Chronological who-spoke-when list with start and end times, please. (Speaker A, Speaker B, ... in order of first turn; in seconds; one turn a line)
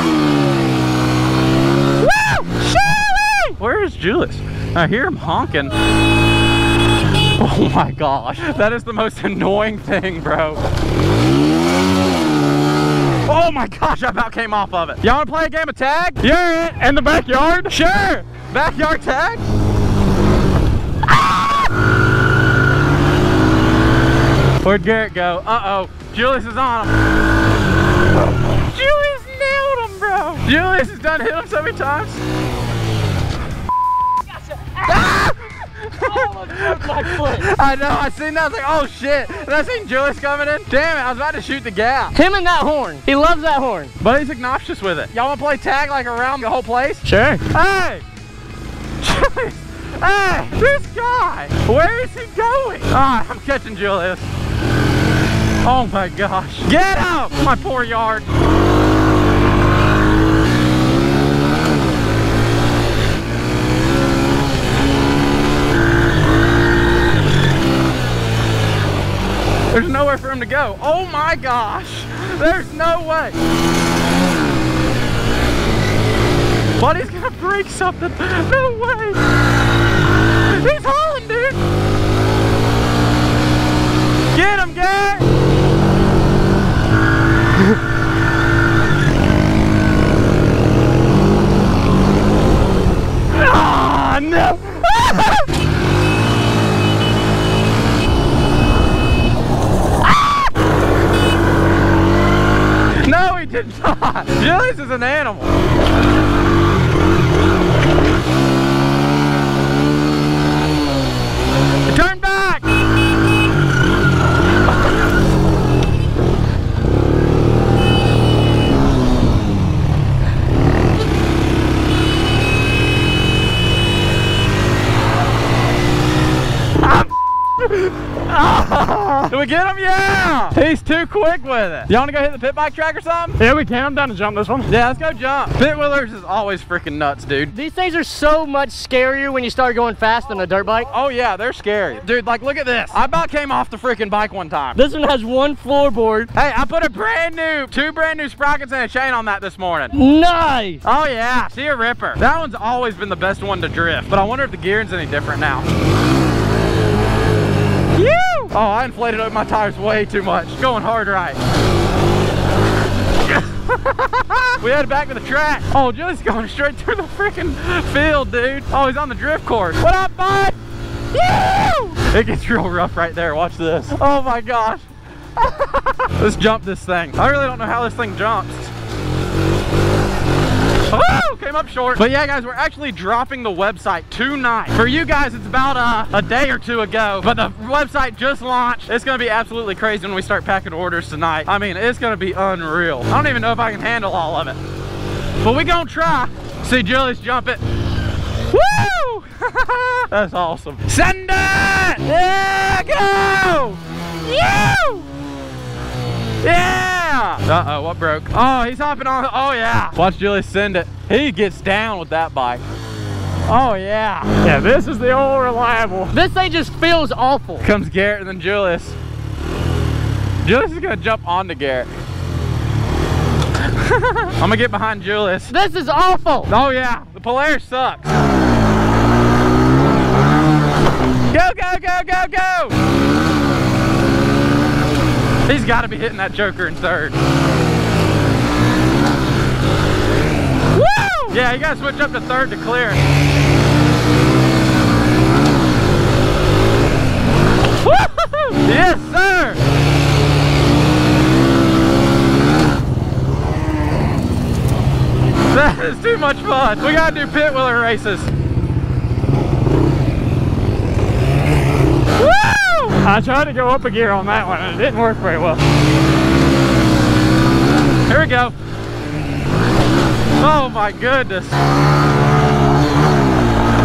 Speaker A: 2.1-3.3
Speaker B: 3.4-5.7
Speaker B: 7.4-10.6
Speaker B: 13.3-16.7
Speaker C: 16.6-17.8
Speaker B: 17.7-19.4
Speaker B: 24.6-26.9
Speaker B: 28.6-32.2
Speaker A: 34.6-35.4
Speaker B: 34.9-42.1
Speaker A: 35.9-37.5
Speaker A: 42.1-43.9
Speaker B: 44.0-48.0
Speaker A: 47.0-47.4
Speaker B: 49.0-54.3
Speaker B: 55.6-58.3
Speaker B: 69.7-73.3
Speaker B: 76.8-79.2
Speaker B: 80.5-81.6
Speaker B: 84.3-85.3
Speaker B: 93.3-95.5
Speaker B: 103.0-105.5
Speaker B: 111.9-112.7
Speaker B: 128.4-133.4
Speaker C: 133.4-134.7
Speaker B: 134.7-137.5
Speaker A: 137.5-140.9
Speaker B: 140.9-144.8
Speaker A: 144.7-146.3
Speaker B: 146.3-149.9
Speaker A: 149.9-150.8
Speaker B: 150.8-155.6
Speaker B: 158.0-161.4
Speaker B: 163.3-170.6
Speaker B: 171.1-174.8
Speaker B: 175.4-178.7
Speaker B: 180.9-194.6
Speaker B: 195.4-197.6
Speaker B: 198.5-205.1
Speaker B: 206.4-212.6
Speaker B: 213.5-214.3
Speaker C: 214.4-216.1
Speaker A: 216.1-217.7
Speaker B: 217.6-218.9
Speaker B: 220.4-221.9
Speaker B: 224.1-225.5
Speaker A: 225.5-226.5
Speaker B: 226.5-228.1
Speaker B: 231.3-232.8
Speaker B: 235.5-237.2
Speaker A: 240.7-241.4
Speaker B: 241.3-243.0
Speaker B: 247.9-249.6
Speaker B: 255.5-258.3
Speaker B: 262.2-262.9
Speaker C: 262.9-265.6
Speaker B: 268.1-268.5
Speaker B: 270.4-271.6